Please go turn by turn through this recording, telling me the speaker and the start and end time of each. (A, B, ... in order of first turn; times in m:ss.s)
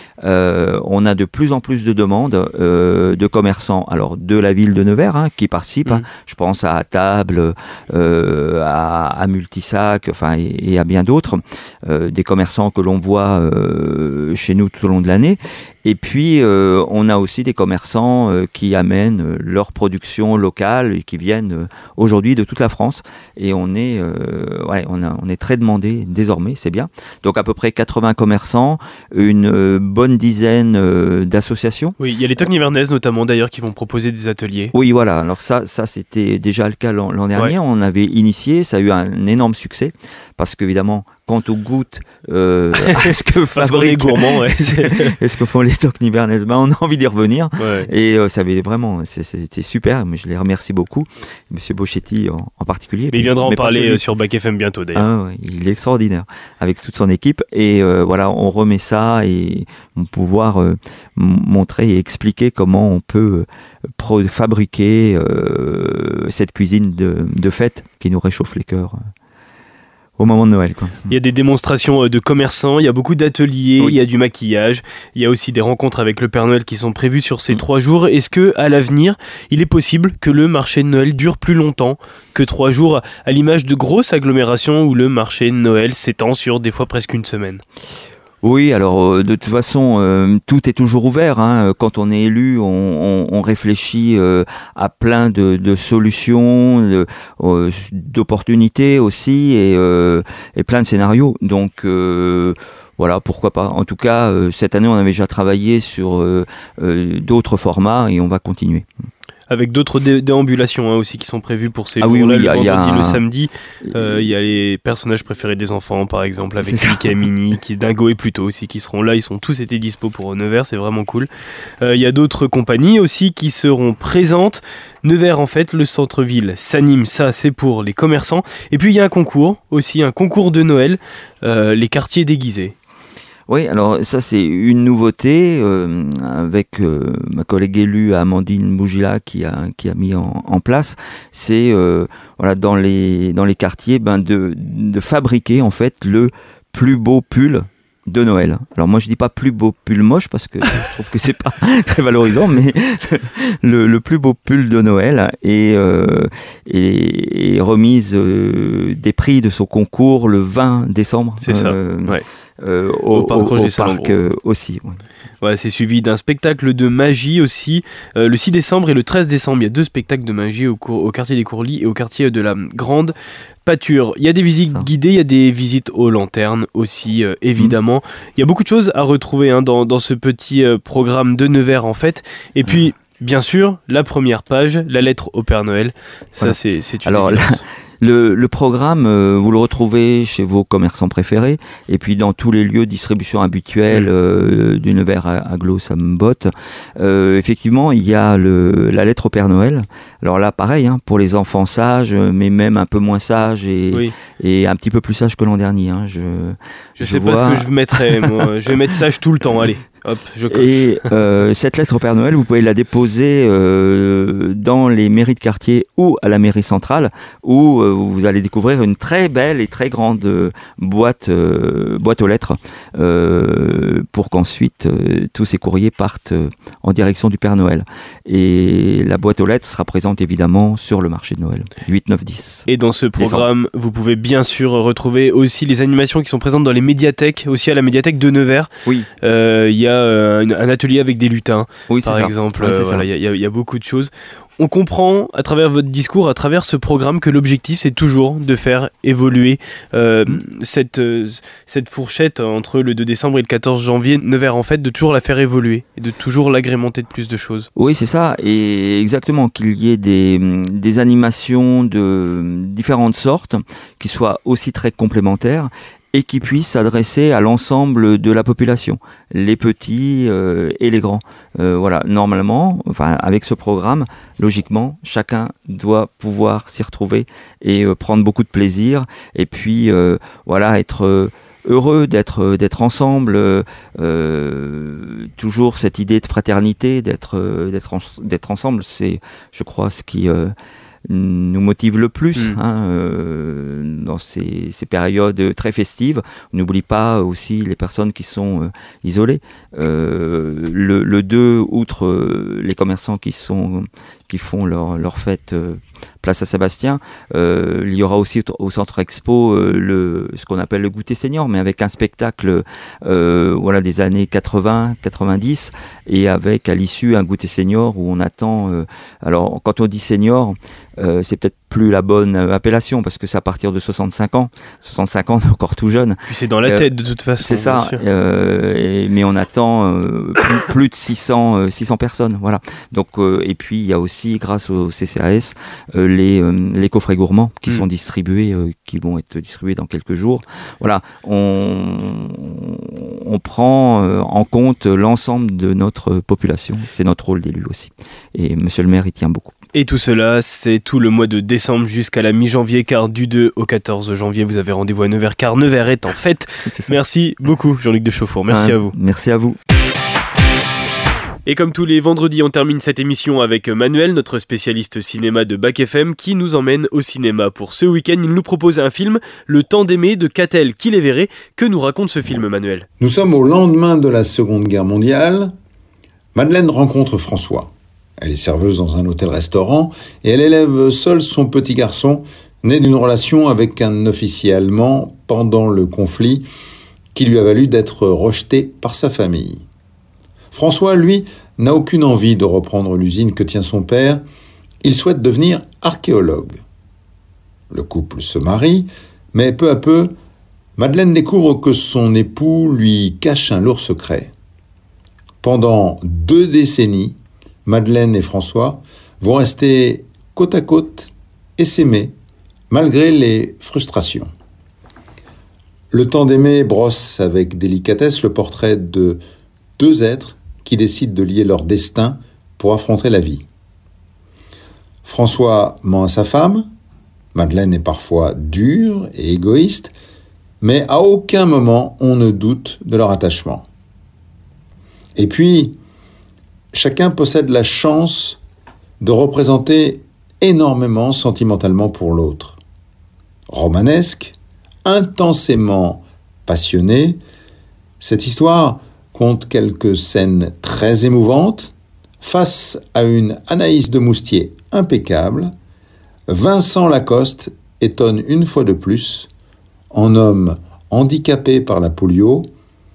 0:00.2-0:32.0 A
0:32.0-0:34.7 B
0:34.7-0:54.0 A
0:42.8-0:45.2 B
0:47.6-0:47.9 B
0:53.1-0:55.1 B
0:54.9-1:03.5 A
1:04.0-1:09.0 A
1:10.2-1:11.1 A
1:11.1-1:27.6 B
1:28.4-1:48.8 A
1:49.5-2:01.3 B
1:52.0-1:53.2 A
1:53.8-1:54.2 A
1:56.6-1:57.1 A
2:01.8-2:12.7 B
2:13.5-2:45.0 A
2:41.4-2:42.2 B
2:43.1-2:44.2 B
2:45.4-2:53.1 B
2:53.6-3:07.6 B
3:06.4-3:28.4 A
3:27.0-3:31.0 B
3:30.5-3:52.6 A
3:52.7-3:58.7 B
3:53.2-3:53.4 A
3:59.2-4:17.7 B
4:01.9-4:03.0 A
4:17.8-4:50.5 A
4:51.0-5:26.9 A
5:26.3-5:28.0 B
5:27.4-5:49.5 A
5:49.7-5:58.9 B
5:56.7-5:57.0 A
5:58.5-5:59.6 A
6:01.4-6:12.8 B
6:13.0-6:15.5 C
6:16.3-6:26.4 C
6:27.1-6:29.6 C
6:30.5-6:34.2 C
6:34.8-6:36.6 C
6:37.7-6:40.1 C
6:40.8-6:44.3 C
6:45.4-6:52.1 C
6:52.7-6:54.3 C
6:55.9-6:59.2 C
6:59.8-7:03.4 C
7:05.0-7:06.7 C
7:07.3-7:09.9 C
7:10.6-7:13.7 C
7:15.2-7:15.8 C
7:16.7-7:18.4 C
7:19.0-7:22.6 C
7:23.5-7:27.2 C
7:28.0-7:35.5 C
7:36.3-7:39.3 C
7:39.9-7:42.5 C